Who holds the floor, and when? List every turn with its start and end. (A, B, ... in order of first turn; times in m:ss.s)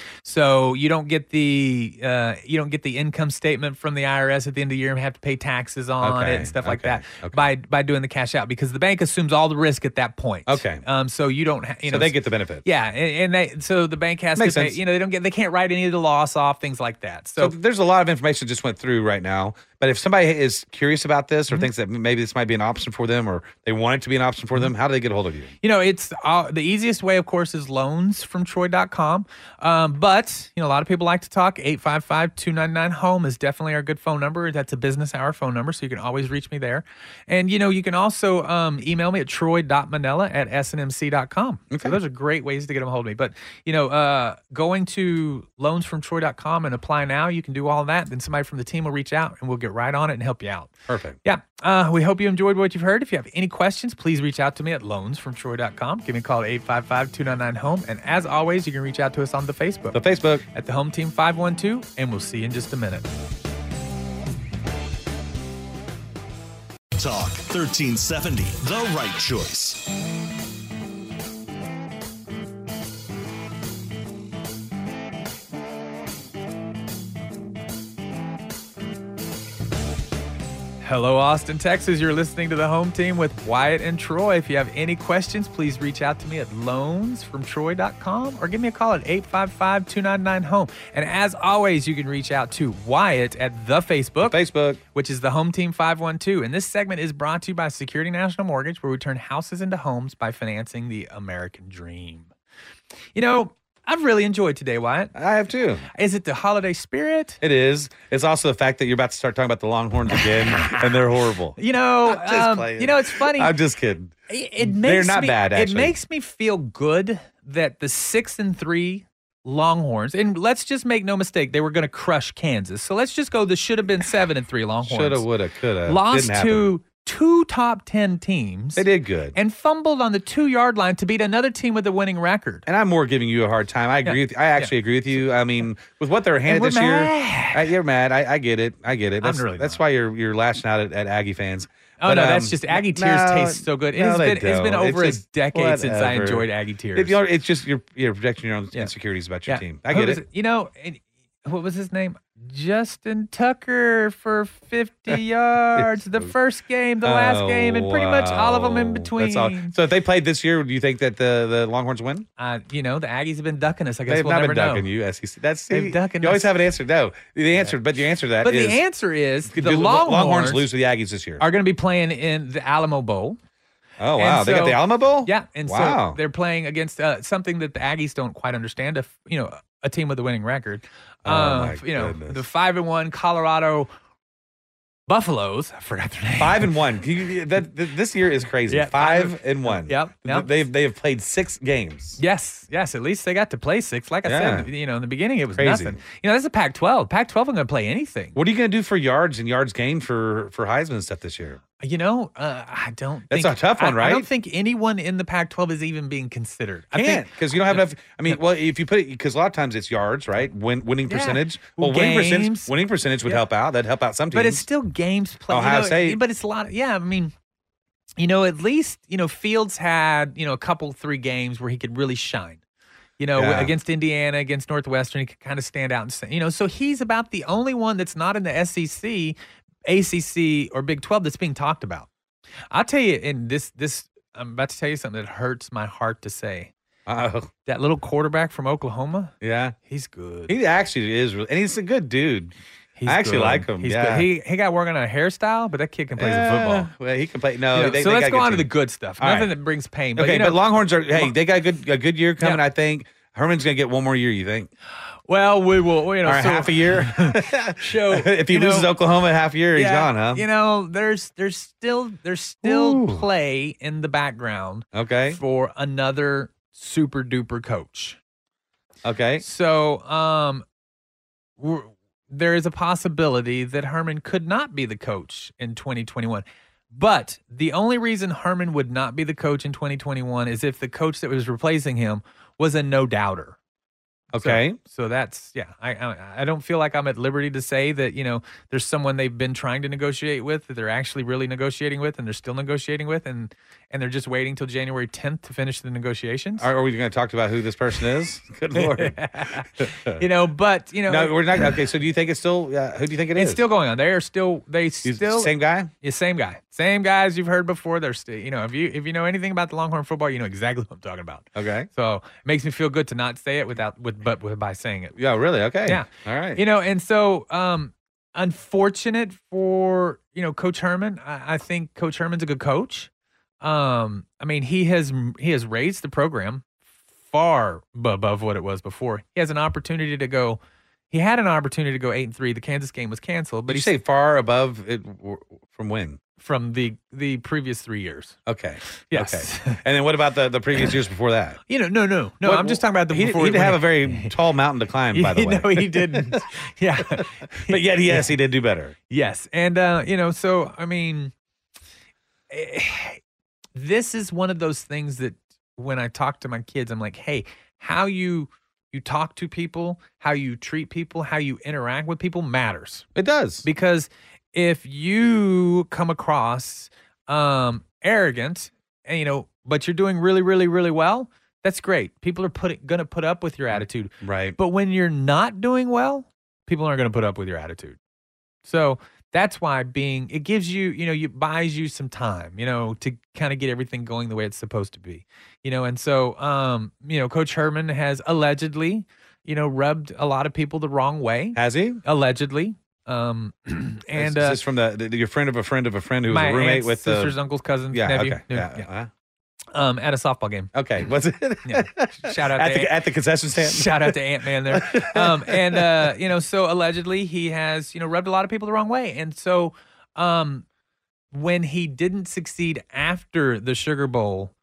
0:00.2-0:17.6 A
0:06.0-0:07.5 B
0:10.5-0:10.8 B
0:11.9-0:12.6 B
0:14.4-0:14.8 B
0:17.4-0:25.5 B
0:25.6-0:50.7 A
0:41.7-0:42.0 B
0:50.9-0:51.2 B
0:51.2-1:00.0 A
0:59.9-1:00.4 B
1:00.5-1:03.1 A
1:07.0-1:09.8 C
1:20.8-1:34.4 A
1:34.2-1:34.8 B
1:34.9-1:42.3 A
1:43.2-1:45.1 A
1:45.2-1:45.9 B
1:45.9-1:47.4 A
1:47.4-1:56.0 B
1:50.5-1:51.0 A
1:51.6-1:53.6 A
1:54.3-2:05.3 A
2:04.8-2:06.7 B
2:05.9-2:12.7 A
2:08.8-2:09.4 B
2:12.7-2:30.2 B
2:14.0-2:14.7 A
2:16.5-2:17.7 A
2:19.2-2:19.8 A
2:22.0-2:27.2 A
2:29.5-2:39.8 A
2:35.8-2:36.3 B
2:37.0-2:42.3 B
2:42.4-2:44.9 A
2:44.1-2:48.8 B
2:45.7-2:46.5 A
2:48.4-2:50.7 A
2:49.5-2:51.4 B
2:51.4-2:53.4 A
2:54.0-2:56.2 B
2:54.2-3:03.9 A
3:01.2-3:02.4 B
3:05.1-3:06.7 A
3:06.4-3:12.2 B
3:08.7-3:10.5 A
3:12.2-3:18.4 A
3:14.2-3:14.7 B
3:15.6-3:16.0 B
3:18.4-3:21.6 B
3:21.8-3:28.4 A
3:23.3-3:24.3 B
3:26.9-3:34.6 B
3:31.1-3:32.7 A
3:34.3-3:37.3 A
3:35.5-3:36.2 B
3:38.2-3:42.6 A
3:43.2-3:52.1 A
3:43.4-3:43.7 B
3:52.7-3:56.7 A
3:57.1-3:57.5 B
3:57.6-3:59.3 A
3:59.4-3:59.8 B
3:59.9-4:00.6 A
4:00.5-4:02.6 B
4:03.0-4:06.9 A
4:03.1-4:04.3 B
4:06.2-4:09.5 B
4:07.7-4:11.4 A
4:10.2-4:14.7 B
4:15.3-4:18.9 A
4:16.2-4:20.4 B
4:19.7-4:28.2 A
4:22.6-4:23.2 B
4:24.9-4:25.4 B
4:29.0-4:29.4 B
4:29.4-4:30.6 A
4:31.6-4:43.6 A
4:44.3-4:44.8 B
4:44.4-4:56.7 A
4:56.6-5:00.2 B
4:58.7-5:01.7 A
5:01.1-5:03.6 B
5:03.4-5:15.2 A
5:05.0-5:05.9 B
5:11.6-5:11.9 B
5:15.2-5:16.6 B
5:15.8-5:23.1 A
5:23.6-5:26.7 A
5:27.2-5:30.6 A
5:31.1-5:33.9 A
5:33.7-5:36.2 B
5:36.4-5:38.4 A
5:38.5-5:41.6 B
5:39.1-5:39.8 A
5:41.7-5:44.3 A
5:42.4-5:46.5 B
5:45.1-5:48.3 A
5:47.2-5:49.0 B
5:49.1-5:51.3 A
5:52.5-5:53.2 A
5:53.8-6:03.1 A
6:03.2-6:03.7 B
6:03.6-6:18.0 A
6:13.7-6:14.6 B
6:18.6-6:34.6 A
6:31.6-6:32.0 B
6:34.2-6:37.4 B
6:36.3-6:38.9 A
6:37.9-6:39.1 B
6:39.7-6:40.7 A
6:40.7-6:46.1 B
6:41.6-6:43.0 A
6:43.6-6:50.6 A
6:51.3-6:54.5 A